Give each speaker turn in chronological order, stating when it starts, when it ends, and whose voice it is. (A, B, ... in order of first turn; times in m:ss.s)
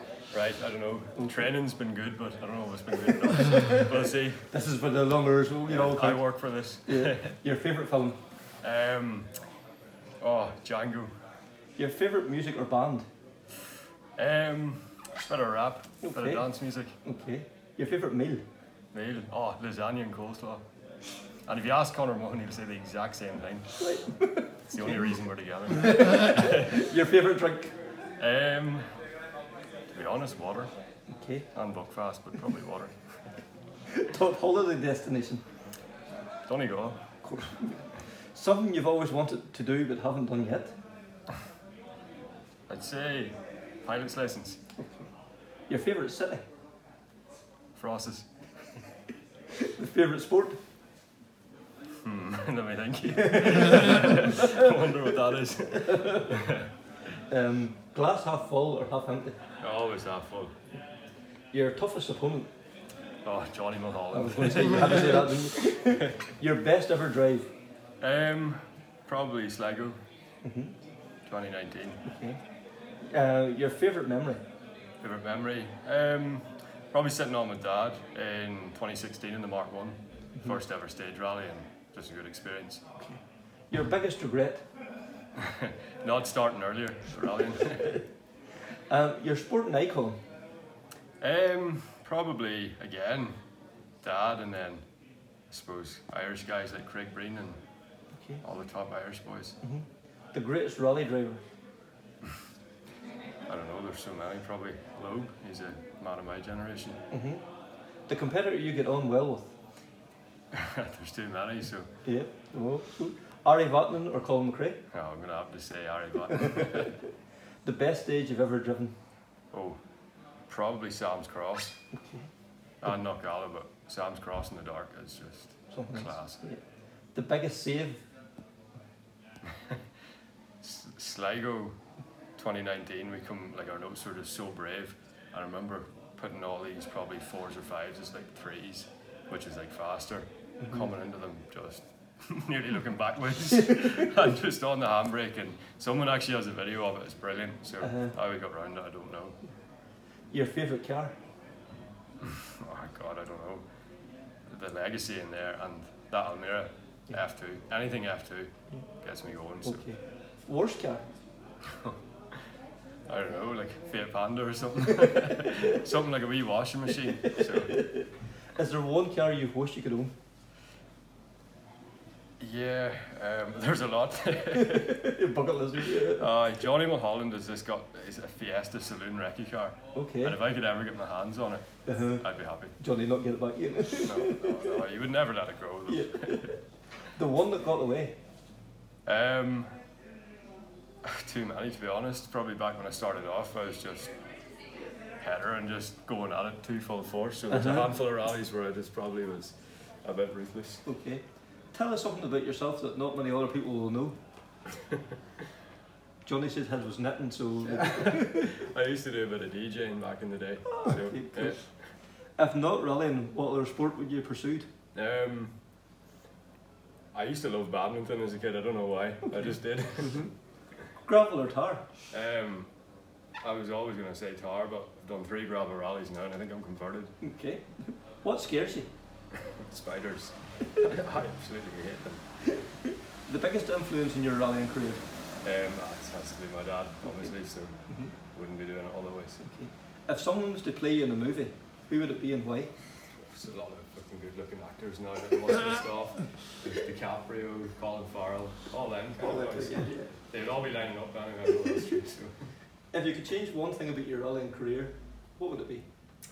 0:00.3-0:04.5 A
0:01.2-0:01.4 B
0:04.5-0:06.2 B
0:05.7-0:07.3 A
0:06.8-0:08.2 B
0:08.6-0:09.4 A
0:10.2-0:11.1 A
0:11.8-0:13.0 B
0:14.2-0:17.0 A
0:16.0-0:16.4 B
0:17.0-0:18.4 B
0:18.9-0:20.6 A
0:21.4-0:24.0 A
0:23.8-0:25.0 B
0:24.7-0:26.8 A
0:25.7-0:27.7 B
0:28.2-0:28.8 A
0:29.9-0:30.7 A
0:31.1-0:31.5 B
0:31.5-0:32.9 A
0:33.9-0:35.4 B
0:36.5-0:37.0 A
0:37.2-0:40.8 B
0:42.7-0:44.6 A
0:44.8-0:45.1 B
0:45.7-0:46.4 B
0:47.7-0:48.3 A
0:49.6-0:50.6 B
0:52.0-0:56.7 A
0:53.9-0:54.6 B
0:55.9-0:56.3 B
0:57.3-0:59.4 B
0:59.6-1:00.5 A
1:01.5-1:02.5 B
1:03.2-1:06.0 A
1:04.1-1:07.5 B
1:08.0-1:10.0 A
1:10.4-1:10.7 B
1:11.3-1:12.0 A
1:12.0-1:12.4 B
1:13.0-1:14.4 B
1:15.0-1:22.8 A
1:23.0-1:24.6 B
1:25.4-1:28.0 A
1:28.9-1:30.2 B
1:31.2-1:33.3 A
1:34.0-1:34.8 A
1:35.5-1:37.6 A
1:38.4-1:39.6 A
1:39.6-1:41.4 B
1:43.5-1:47.0 A
1:47.1-1:47.4 B
1:48.1-1:49.5 B
1:50.5-1:51.9 A
1:52.0-1:54.8 B
1:54.9-1:56.9 A
1:57.6-1:58.9 B
1:59.5-1:59.8 A
2:00.5-2:01.8 A
2:01.9-2:02.3 B
2:02.8-2:06.4 A
2:05.7-2:06.6 B
2:07.1-2:08.0 B
2:10.6-2:11.8 A
2:12.4-2:29.4 A
2:20.6-2:20.9 B
2:27.8-2:28.1 B
2:30.3-2:31.1 B
2:32.2-2:33.6 A
2:34.5-2:38.5 A
2:39.0-2:39.8 A
2:39.6-2:41.0 B
2:41.7-2:42.0 A
2:43.1-2:47.8 A
2:47.5-2:50.1 B
2:52.4-2:55.1 A
2:54.6-2:56.3 B
2:55.8-3:01.6 A
2:59.9-3:00.4 B
3:01.8-3:02.2 B
3:02.2-3:02.8 A
3:02.8-3:04.8 B
3:04.0-3:06.6 A
3:05.9-3:06.6 B
3:07.1-3:08.2 B
3:09.0-3:09.7 A
3:11.0-3:14.1 A
3:15.2-3:20.8 A
3:17.5-3:17.9 B
3:20.8-3:24.2 B
3:26.2-3:28.5 B
3:27.6-3:31.7 A
3:30.7-3:31.6 B
3:32.4-3:34.7 B
3:34.9-3:35.5 A
3:37.1-3:40.3 A
3:41.0-3:41.8 B
3:42.1-3:42.7 A
3:43.4-3:47.1 A
3:47.2-3:48.9 B
3:49.3-3:52.2 A
3:53.2-3:55.0 B
3:55.4-3:59.4 A
3:59.4-4:02.7 B
4:03.2-4:12.5 A
4:09.2-4:10.1 B
4:12.9-4:15.8 B